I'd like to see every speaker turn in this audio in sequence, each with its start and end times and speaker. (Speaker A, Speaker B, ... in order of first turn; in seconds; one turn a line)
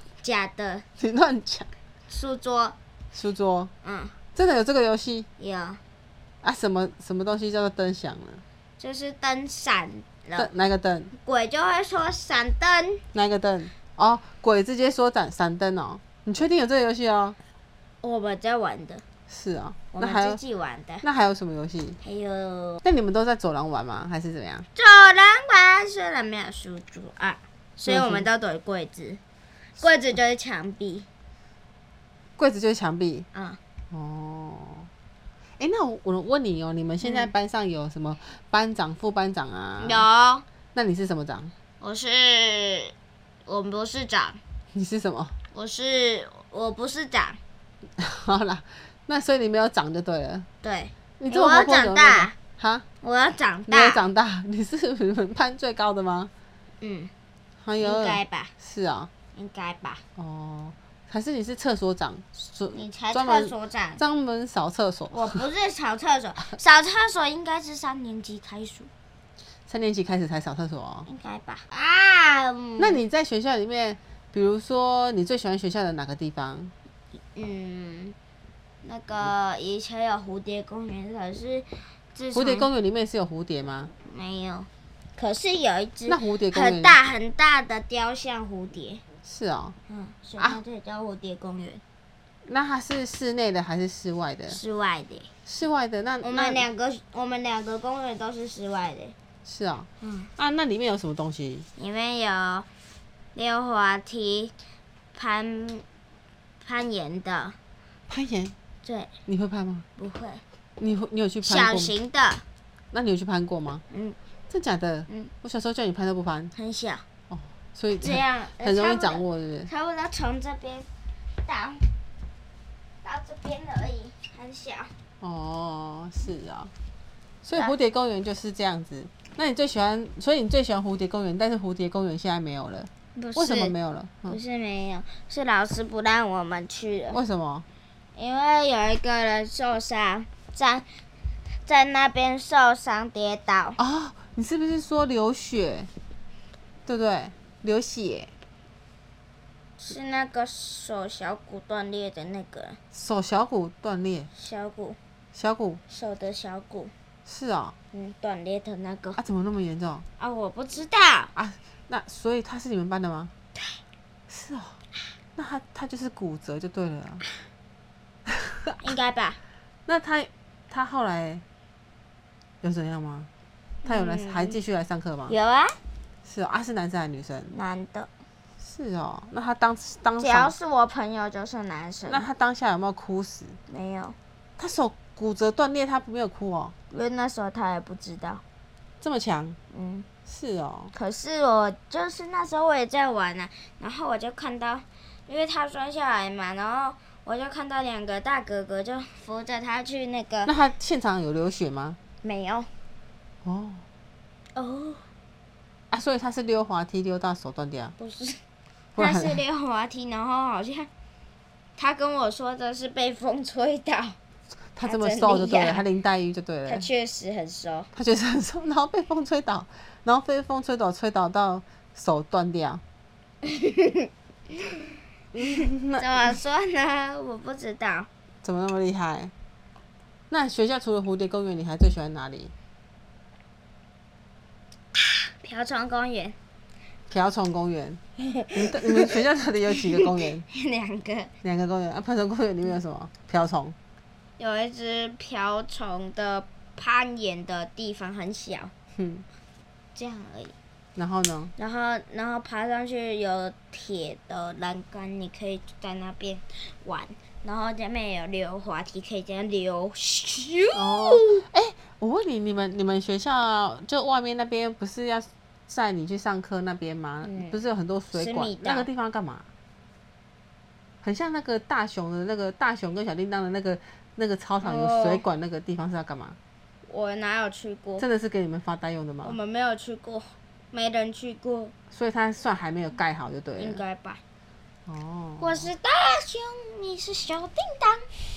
Speaker A: 0.2-0.8
Speaker B: 1.0-1.7
Speaker A: 2.1-2.8
Speaker B: 3.1-3.7
Speaker A: 3.8-4.2
Speaker B: 4.3-5.3
Speaker A: 5.4-5.8
Speaker B: 6.4-8.4
Speaker A: 8.8-10.5
Speaker B: 10.4-11.1
Speaker A: 11.2-13.0
Speaker B: 13.1-17.4
Speaker A: 18.0-19.0
Speaker B: 19.3-20.4
Speaker A: 19.9-21.1
Speaker B: 21.0-22.0
Speaker A: 22.0-22.8
Speaker B: 22.8-24.7
Speaker A: 24.8-29.2
Speaker B: 27.9-28.3
Speaker A: 29.8-31.1
Speaker B: 32.4-33.3
Speaker A: 33.3-33.6
Speaker B: 33.9-34.9
Speaker B: 35.6-40.1
Speaker A: 37.0-37.3
Speaker A: 39.8-40.5
Speaker B: 40.7-41.5
Speaker A: 41.8-42.9
Speaker A: 43.5-44.4
Speaker B: 44.7-45.4
Speaker A: 45.5-47.4
Speaker B: 48.0-50.5
Speaker A: 50.6-52.3
Speaker B: 51.2-52.9
Speaker A: 53.0-54.0
Speaker B: 53.7-56.3
Speaker A: 56.8-57.1
Speaker B: 57.6-59.1
Speaker A: 57.8-58.5
Speaker A: 59.4-60.0
Speaker B: 60.2-65.4
Speaker A: 62.7-64.0
Speaker A: 65.1-68.9
Speaker B: 69.7-71.1
Speaker A: 71.1-73.0
Speaker B: 72.8-76.7
Speaker A: 77.4-78.2
Speaker A: 78.8-82.7
Speaker B: 82.3-83.9
Speaker A: 84.0-89.0
Speaker B: 86.1-87.0
Speaker B: 89.2-89.8
Speaker A: 89.9-91.8
Speaker B: 92.5-94.6
Speaker A: 94.5-95.3
Speaker B: 95.5-96.7
Speaker A: 96.2-99.2
Speaker B: 99.5-101.7
Speaker A: 100.0-100.3
Speaker A: 101.8-102.7
Speaker A: 103.3-104.5
Speaker A: 105.1-105.8
Speaker A: 106.6-107.6
Speaker B: 108.1-108.5
Speaker A: 108.8-109.1
Speaker B: 109.3-109.8
Speaker A: 110.0-110.4
Speaker B: 110.8-111.9
Speaker A: 111.4-112.4
Speaker B: 112.9-113.8
Speaker A: 113.9-114.2
Speaker B: 114.5-116.5
Speaker A: 116.5-117.0
Speaker B: 117.3-119.7
Speaker A: 118.0-120.9
Speaker A: 121.4-121.9
Speaker A: 123.0-124.9
Speaker B: 125.2-126.7
Speaker B: 127.4-134.4
Speaker A: 133.2-133.7
Speaker A: 134.3-137.2
Speaker B: 137.1-137.7
Speaker A: 138.2-140.9
Speaker A: 141.7-143.8
Speaker B: 143.8-145.9
Speaker B: 146.9-148.3
Speaker A: 149.8-152.8
Speaker B: 152.9-154.3
Speaker A: 154.4-155.0
Speaker B: 155.3-155.8
Speaker A: 155.9-156.9
Speaker B: 157.3-157.8
Speaker A: 157.9-159.2
Speaker B: 159.2-160.1
Speaker A: 160.2-161.3
Speaker B: 161.3-163.3
Speaker B: 164.3-164.8
Speaker B: 165.4-167.2
Speaker B: 168.3-168.7
Speaker A: 168.8-169.4
Speaker B: 169.9-171.4
Speaker B: 172.6-173.3
Speaker A: 173.8-174.6
Speaker B: 173.9-175.3
Speaker A: 175.3-175.8
Speaker B: 176.2-177.5
Speaker A: 177.5-178.1
Speaker B: 178.6-180.5
Speaker A: 180.2-182.3
Speaker B: 182.1-183.6
Speaker A: 183.7-184.2
Speaker B: 184.6-186.8
Speaker A: 186.9-188.4
Speaker B: 189.0-189.6
Speaker A: 189.7-190.1
Speaker B: 190.3-190.9
Speaker A: 190.9-200.5
Speaker B: 200.5-202.0
Speaker A: 202.2-202.7
Speaker B: 203.4-203.8
Speaker A: 204.6-205.1
Speaker B: 205.9-207.9
Speaker A: 208.0-208.4
Speaker B: 209.0-209.4
Speaker A: 209.0-210.9
Speaker A: 211.8-214.2
Speaker B: 214.8-216.9
Speaker A: 214.8-215.8
Speaker A: 216.7-217.9
Speaker B: 217.9-222.8
Speaker A: 223.4-224.1
Speaker B: 225.4-226.4
Speaker A: 225.4-228.1
Speaker B: 228.4-229.3
Speaker B: 230.3-232.5
Speaker A: 235.4-236.4
Speaker B: 237.1-238.0
Speaker A: 238.2-239.2
Speaker B: 238.5-240.4
Speaker A: 239.9-241.3
Speaker B: 241.4-243.8
Speaker A: 244.4-248.7
Speaker B: 249.0-249.2
Speaker A: 249.9-250.5
Speaker B: 251.0-251.5
Speaker A: 251.6-261.4
Speaker B: 260.8-269.5
Speaker A: 267.2-267.6
Speaker A: 268.1-268.9
Speaker B: 271.0-276.4
Speaker A: 274.6-275.2
Speaker A: 276.9-278.1
Speaker B: 278.0-279.4
Speaker A: 279.2-281.7
Speaker B: 281.9-283.8
Speaker A: 283.6-284.2
Speaker B: 284.9-285.7
Speaker A: 285.4-288.1